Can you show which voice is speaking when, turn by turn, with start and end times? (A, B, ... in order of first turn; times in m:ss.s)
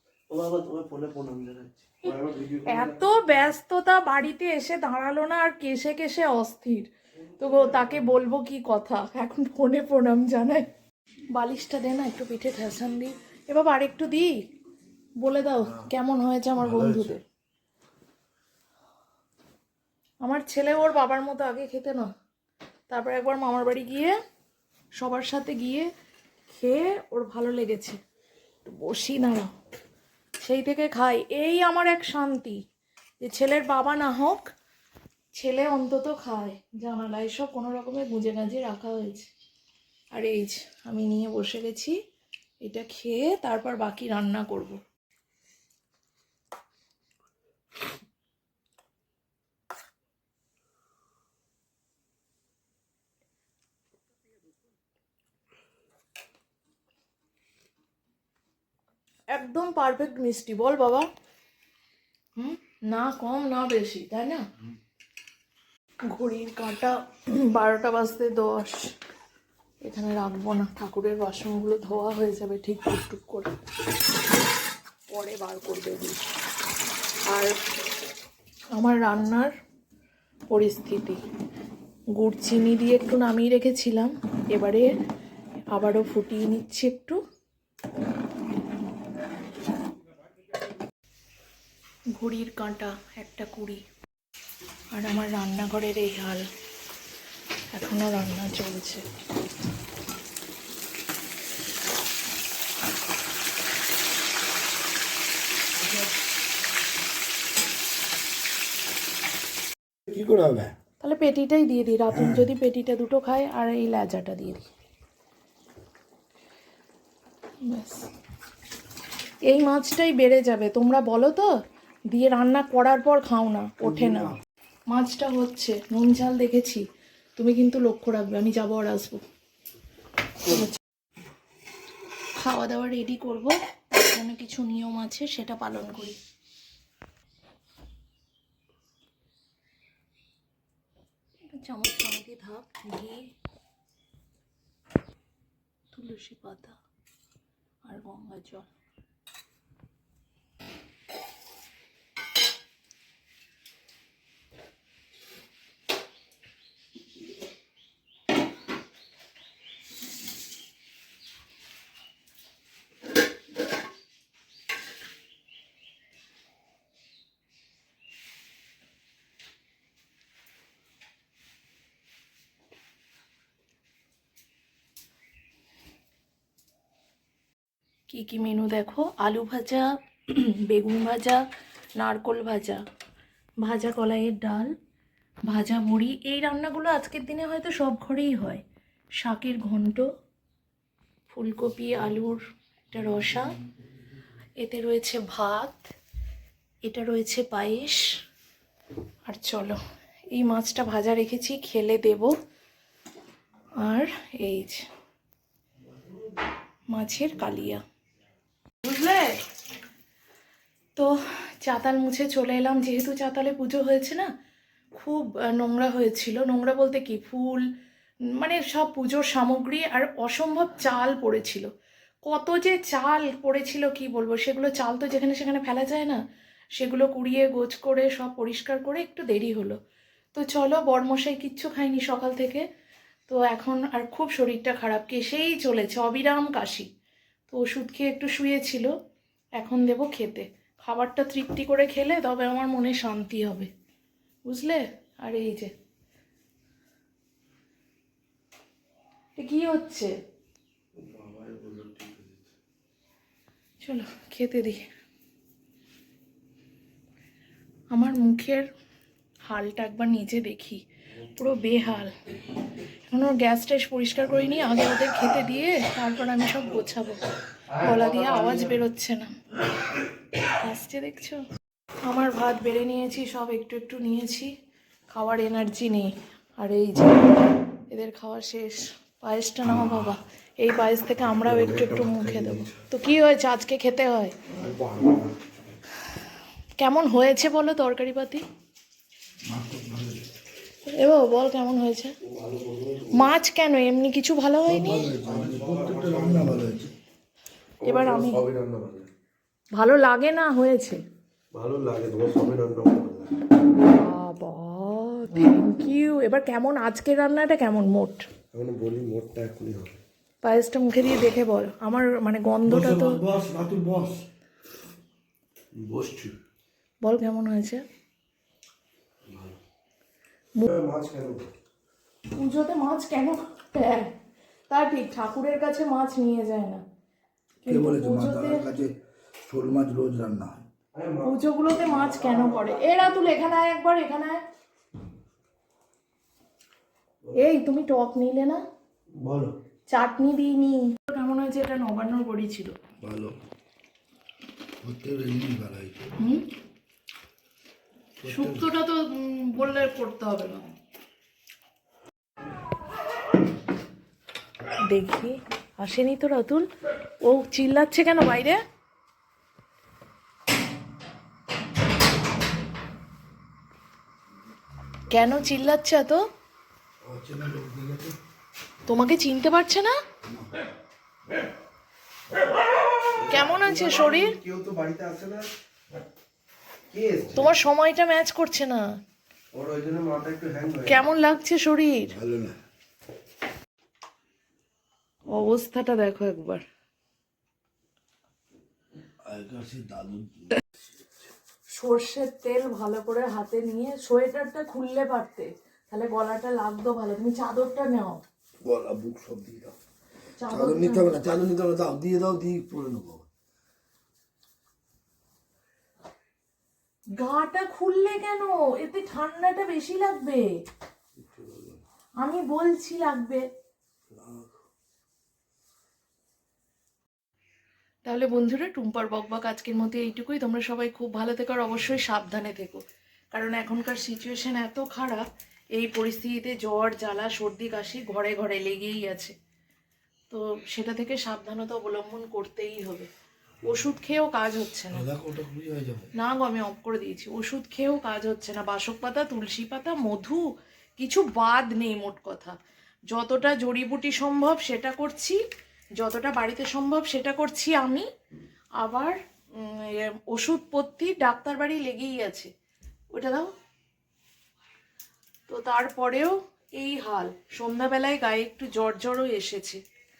0:00.3-0:03.0 A
0:02.7-0:10.7 B
0:07.4-0:07.8 A
0:11.3-0:14.4 B
0:15.2-0:17.2 B
0:16.6-0:17.1 A
0:20.2-0:22.1 B
0:22.9-0:24.2 B
0:25.0-0:25.9 B
0:26.5-0:28.0 B
0:28.6-0:29.5 B
0:30.4-0:32.6 B
0:33.2-0:34.5 B
0:35.3-0:39.3 B
0:40.1-0:42.0 B
0:42.6-0:44.8 B
0:59.3-1:01.1 B
1:02.4-1:04.4 B
1:06.1-1:08.9 B
1:09.8-1:13.5 B
1:15.1-1:16.2 B
1:17.3-1:17.5 B
1:18.8-1:19.5 B
1:20.5-1:21.2 B
1:22.1-1:24.9 B
1:25.7-1:27.2 B
1:32.2-1:33.8 B
1:34.9-1:36.5 B
1:37.7-1:39.0 B
1:50.1-1:50.7 C
1:51.0-1:54.6 B
1:52.1-1:52.5 C
1:57.6-1:58.1 B
1:59.5-2:01.5 B
2:02.1-2:04.3 B
2:04.9-2:06.8 B
2:07.4-2:09.2 B
2:10.4-2:10.8 B
2:12.4-2:16.2 B
2:21.5-2:23.3 B
2:25.9-2:26.8 B
2:27.8-2:28.7 B
2:58.1-3:01.4 B
3:02.0-3:02.8 B
3:03.6-3:04.7 B
3:05.5-3:08.6 B
3:09.2-3:10.1 B
3:11.3-3:13.5 B
3:14.6-3:15.8 B
3:16.8-3:18.1 B
3:19.3-3:19.8 B
3:20.3-3:22.3 B
3:23.8-3:24.8 B
3:26.9-3:27.8 B
3:28.8-3:29.4 B
3:31.0-3:34.3 B
3:34.9-3:37.7 B
3:38.4-3:41.7 B
3:42.2-3:46.2 B
3:46.8-3:49.8 B
3:50.3-3:52.6 B
3:53.3-3:56.9 B
3:57.5-3:58.9 B
3:59.6-4:03.7 B
4:04.4-4:05.7 B
4:09.4-4:10.1 B
4:11.0-4:12.5 A
4:13.8-4:14.8 B
4:17.9-4:18.6 B
4:19.5-4:20.8 B
4:21.3-4:22.1 B
4:23.1-4:27.2 B
4:27.7-4:28.7 A
4:27.8-4:29.3 B
4:30.5-4:31.4 B
4:32.0-4:34.5 B
4:35.1-4:44.4 B
4:39.6-4:40.2 C
4:41.4-4:42.7 A
4:44.5-4:45.3 A
4:46.8-4:48.4 B
4:49.4-4:50.2 C
4:50.8-4:52.1 B
4:52.2-4:53.3 A
4:53.1-4:55.1 B
4:54.6-4:56.9 C
4:55.2-4:56.7 A
4:57.8-4:59.1 A
4:57.8-4:58.4 B
4:59.8-5:01.0 B
5:01.5-5:03.3 A
5:03.8-5:08.3 B
5:08.5-5:10.0 A
5:10.4-5:13.2 B
5:12.7-5:14.2 C
5:15.8-5:16.3 A
5:17.0-5:17.8 B
5:19.3-5:19.6 A
5:20.6-5:21.5 A
5:22.4-5:24.1 B
5:24.7-5:26.8 B
5:27.6-5:28.6 B
5:27.6-5:30.6 C
5:30.9-5:33.3 A
5:31.2-5:34.4 B
5:37.4-5:38.6 B
5:39.2-5:39.5 A
5:39.9-5:42.7 B
5:43.0-5:43.3 C
5:44.8-5:46.1 C
5:46.2-5:46.5 B
5:48.2-5:48.6 C
5:48.3-5:50.7 B
5:54.9-5:56.6 B
5:57.2-5:58.6 B
6:05.1-6:06.2 B
6:07.0-6:08.2 C
6:08.9-6:10.0 B
6:13.2-6:15.5 A
6:13.3-6:14.3 B
6:16.9-6:17.5 A
6:17.4-6:18.8 B
6:19.5-6:21.0 A
6:20.9-6:22.1 B
6:22.1-6:22.6 C
6:25.3-6:26.6 B
6:29.2-6:31.1 C
6:31.7-6:38.2 B
6:38.6-6:39.7 C
6:40.4-6:41.2 B
6:40.5-6:43.3 C
6:47.2-6:50.5 B
6:51.2-6:51.8 C
6:52.2-6:53.4 B
6:54.1-6:54.5 C
6:58.0-7:02.8 B
7:03.3-7:09.3 B
7:10.3-7:13.1 B
7:13.6-7:15.0 B
7:14.9-7:16.1 C
7:16.2-7:20.4 B
7:21.0-7:22.6 B
7:23.1-7:25.4 B
7:26.0-7:28.1 B
7:28.8-7:32.5 B
7:33.1-7:33.5 B
7:35.5-7:39.8 B